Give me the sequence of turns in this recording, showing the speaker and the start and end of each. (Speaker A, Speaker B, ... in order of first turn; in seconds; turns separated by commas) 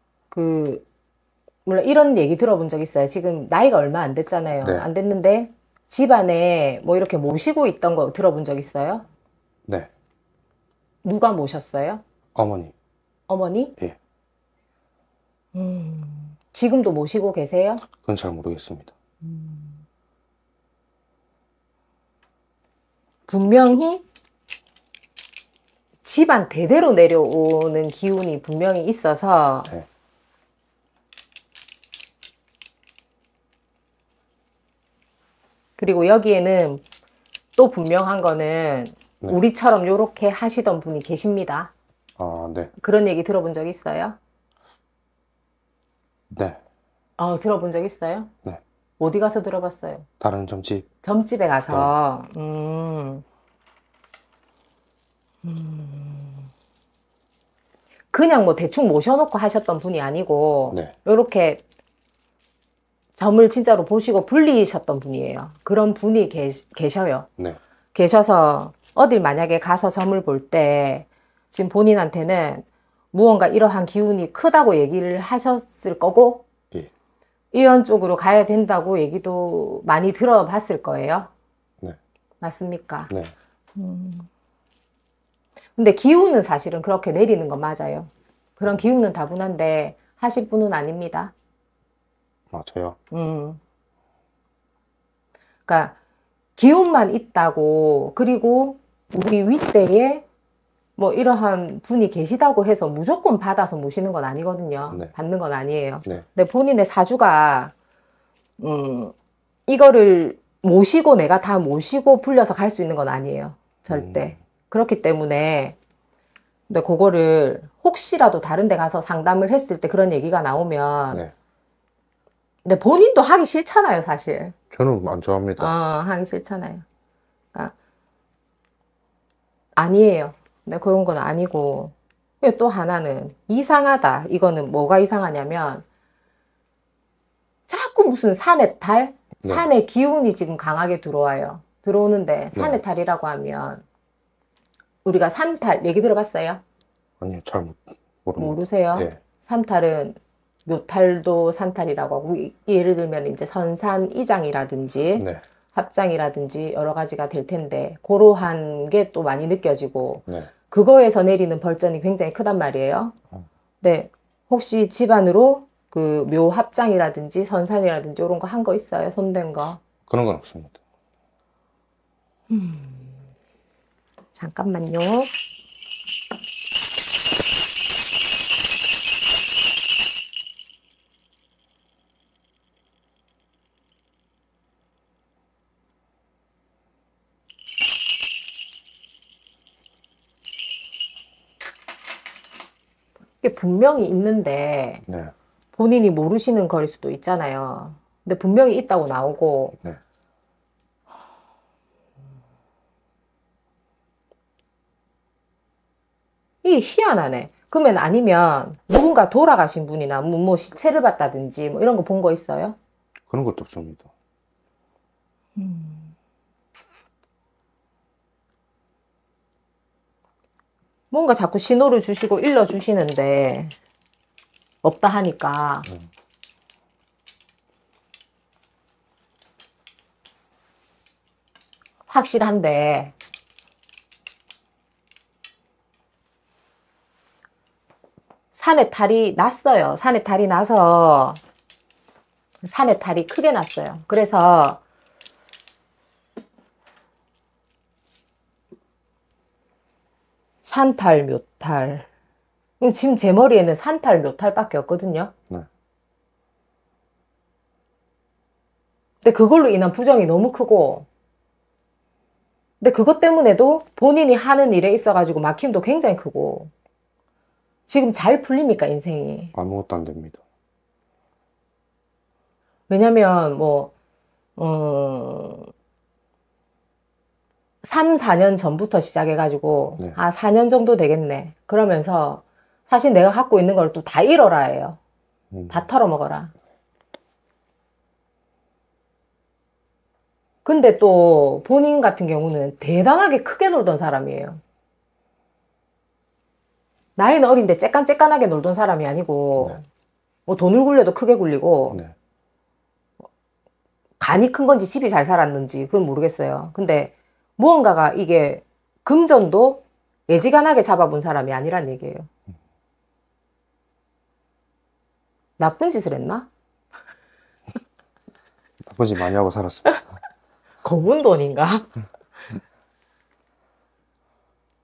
Speaker A: 0.3-0.8, Speaker A: 1.7-9.1, Speaker A: 11.0-12.0, Speaker B: 12.3-12.7, Speaker A: 13.3-13.8, Speaker A: 15.5-17.8, Speaker B: 18.0-18.9, Speaker A: 19.2-19.8, Speaker A: 23.3-24.0, Speaker A: 26.0-29.7, Speaker A: 35.8-36.8, Speaker A: 37.6-41.7, Speaker B: 42.2-42.7, Speaker A: 42.8-44.2, Speaker B: 46.3-46.6, Speaker A: 47.2-48.3, Speaker A: 49.0-50.1, Speaker B: 50.2-50.9, Speaker A: 51.0-53.2, Speaker B: 51.7-51.9, Speaker A: 55.4-56.5, Speaker A: 58.1-61.6, Speaker A: 63.2-67.3, Speaker A: 67.9-76.5, Speaker A: 77.5-81.3, Speaker A: 82.4-83.1, Speaker A: 83.8-84.3, Speaker A: 85.8-91.3, Speaker B: 92.5-93.0, Speaker A: 93.1-93.6, Speaker A: 95.7-96.0, Speaker A: 96.6-100.2, Speaker A: 101.0-107.7, Speaker A: 108.6-109.1, Speaker A: 109.7-115.8, Speaker B: 113.9-114.2, Speaker A: 116.7-121.2, Speaker A: 122.7-124.6, Speaker B: 124.7-125.7, Speaker A: 125.6-126.8, Speaker A: 129.8-135.8, Speaker A: 137.7-143.8, Speaker B: 139.4-139.7, Speaker A: 145.1-146.6, Speaker B: 147.2-149.2, Speaker A: 148.4-163.2, Speaker B: 155.2-155.4, Speaker A: 163.8-169.8, Speaker B: 170.1-170.8, Speaker A: 172.5-173.1, Speaker A: 174.3-175.3, Speaker A: 193.4-195.0, Speaker B: 195.1-195.3, Speaker A: 195.8-199.8, Speaker A: 206.6-212.8, Speaker B: 213.3-214.1, Speaker A: 215.6-216.1, Speaker A: 221.1-223.7, Speaker A: 224.8-225.9, Speaker A: 232.1-233.1, Speaker A: 238.5-241.4, Speaker A: 242.6-244.8, Speaker A: 250.6-252.1, Speaker A: 252.8-255.3, Speaker A: 259.2-261.1, Speaker A: 262.8-266.7, Speaker A: 267.9-269.5, Speaker B: 269.6-270.4, Speaker A: 272.9-273.9, Speaker A: 274.6-275.7, Speaker A: 277.8-285.0, Speaker B: 285.5-285.9, Speaker A: 285.7-286.5, Speaker A: 290.6-294.6, Speaker A: 297.2-299.8, Speaker A: 300.5-302.0, Speaker A: 304.2-312.3, Speaker A: 315.6-316.5, Speaker B: 318.8-320.0, Speaker A: 320.8-321.9